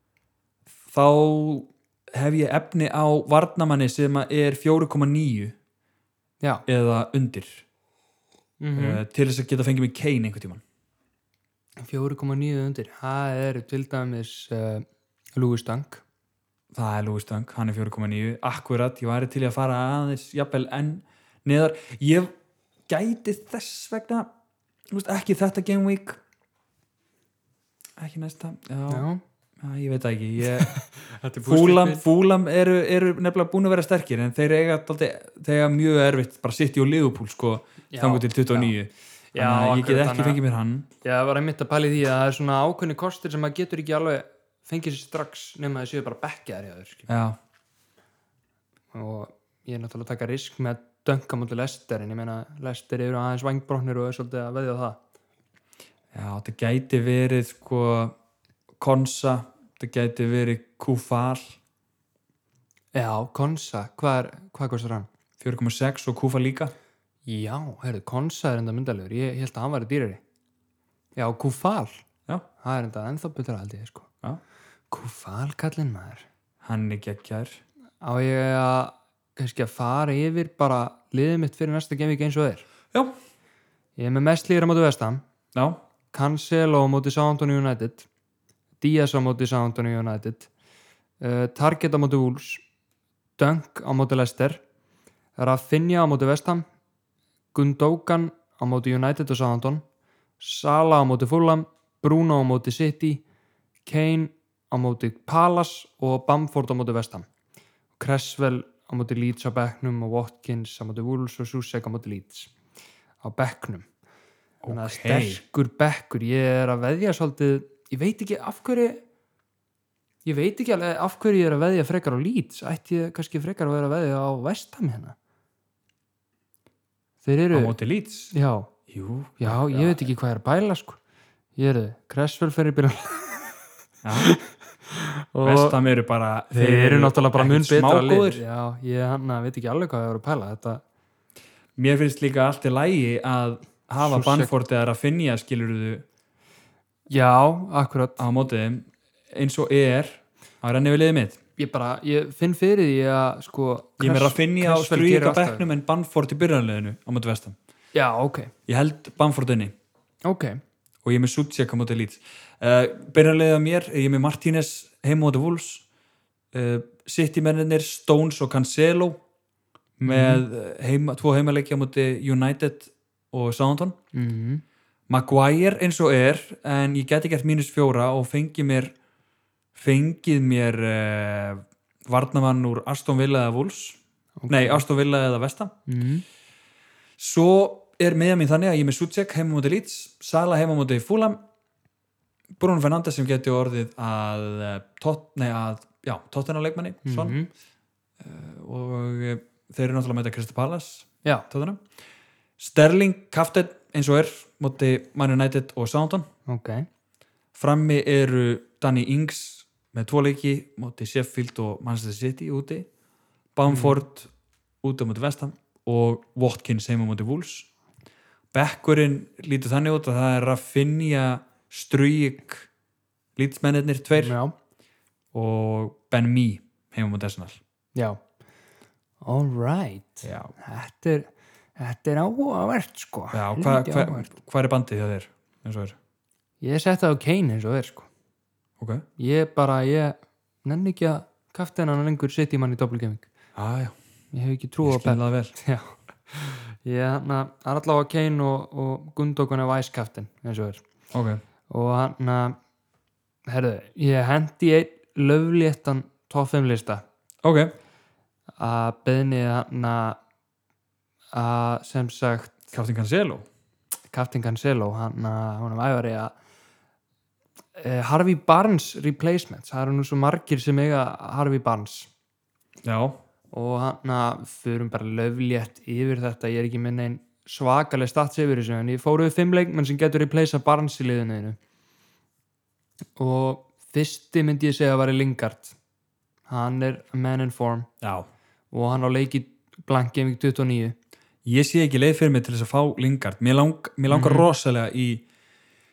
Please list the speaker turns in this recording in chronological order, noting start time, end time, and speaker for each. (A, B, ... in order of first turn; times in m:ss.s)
0:00.9-0:05.6 A
0:06.7-0:07.6 A
0:08.6-0:09.0 B
0:08.8-0:10.6 A
0:11.8-0:14.8 B
0:15.4-0:16.0 B
0:16.7-0:22.3 A
0:22.9-0:24.3 A
0:24.9-0:26.2 A
0:28.0-0:29.1 A
0:28.9-0:29.2 B
0:29.6-0:30.8 A
0:30.6-0:32.0 B
0:31.4-0:40.9 A
0:37.9-0:38.7 B
0:39.3-0:40.4 B
0:41.0-0:47.1 B
0:47.1-0:47.4 A
0:48.9-0:55.0 B
0:56.1-0:58.2 A
0:58.8-1:01.6 A
1:02.9-1:05.1 B
1:05.4-1:06.7 A
1:07.3-1:10.2 B
1:11.2-1:12.0 B
1:12.6-1:14.1 B
1:14.9-1:16.3 B
1:16.6-1:17.6 A
1:18.0-1:22.6 B
1:24.0-1:25.2 B
1:25.5-1:25.8 A
1:26.1-1:28.1 B
1:28.8-1:30.5 B
1:31.2-1:32.6 B
1:33.4-1:34.6 B
1:35.4-1:36.6 B
1:37.5-1:39.8 B
1:40.4-1:43.2 B
1:43.8-1:47.3 B
1:48.0-1:52.5 B
1:53.2-1:53.9 B
1:54.6-1:55.4 A
1:54.7-1:59.0 B
2:00.2-2:05.2 B
2:07.2-2:07.8 B
2:07.5-2:08.3 A
2:08.3-2:08.7 B
2:08.9-2:10.1 A
2:09.4-2:11.0 B
2:11.6-2:13.5 B
2:14.0-2:14.3 A
2:14.2-2:15.8 B
2:15.4-2:18.4 A
2:16.5-2:20.8 B
2:21.8-2:26.0 A
2:24.0-2:24.5 B
2:27.1-2:28.2 B
2:28.2-2:31.4 A
2:31.6-2:35.7 B
2:34.0-2:37.6 A
2:38.0-2:38.5 B
2:38.7-2:39.7 A
2:40.2-2:40.6 B
2:41.0-2:45.8 A
2:46.5-2:49.2 A
2:50.0-2:54.0 A
2:50.0-2:50.4 B
2:54.1-2:54.6 B
2:55.1-2:58.9 A
2:59.8-3:05.8 A
3:04.4-3:04.8 B
3:05.9-3:06.2 B
3:07.2-3:11.4 A
3:12.6-3:17.4 A
3:17.0-3:17.5 B
3:18.2-3:21.8 A
3:22.6-3:26.3 A
3:26.5-3:26.9 B
3:27.6-3:32.9 A
3:33.6-3:34.3 A
3:33.7-3:34.0 B
3:34.8-3:37.7 A
3:38.5-3:42.7 A
3:43.4-3:44.4 A
3:44.2-3:44.5 B
3:45.3-3:47.6 A
3:49.2-3:54.3 B
3:50.2-3:50.5 A
3:53.3-3:56.0 A
3:56.6-3:58.1 B
3:58.8-3:59.0 A
3:59.2-4:03.3 B
4:03.6-4:04.0 A
4:04.3-4:10.8 B
4:04.8-4:05.5 A
4:11.1-4:11.4 A
4:11.7-4:12.6 B
4:13.5-4:17.0 B
4:17.4-4:17.7 A
4:18.6-4:20.2 B
4:21.3-4:22.6 B
4:22.7-4:23.5 A
4:24.1-4:26.3 B
4:27.8-4:32.1 B
4:32.8-4:33.2 A
4:33.5-4:41.6 B
4:43.2-4:45.8 B
4:46.5-4:47.9 B
4:48.0-4:48.3 A
4:48.7-4:51.0 B
4:51.4-4:55.2 A
4:54.1-4:54.5 B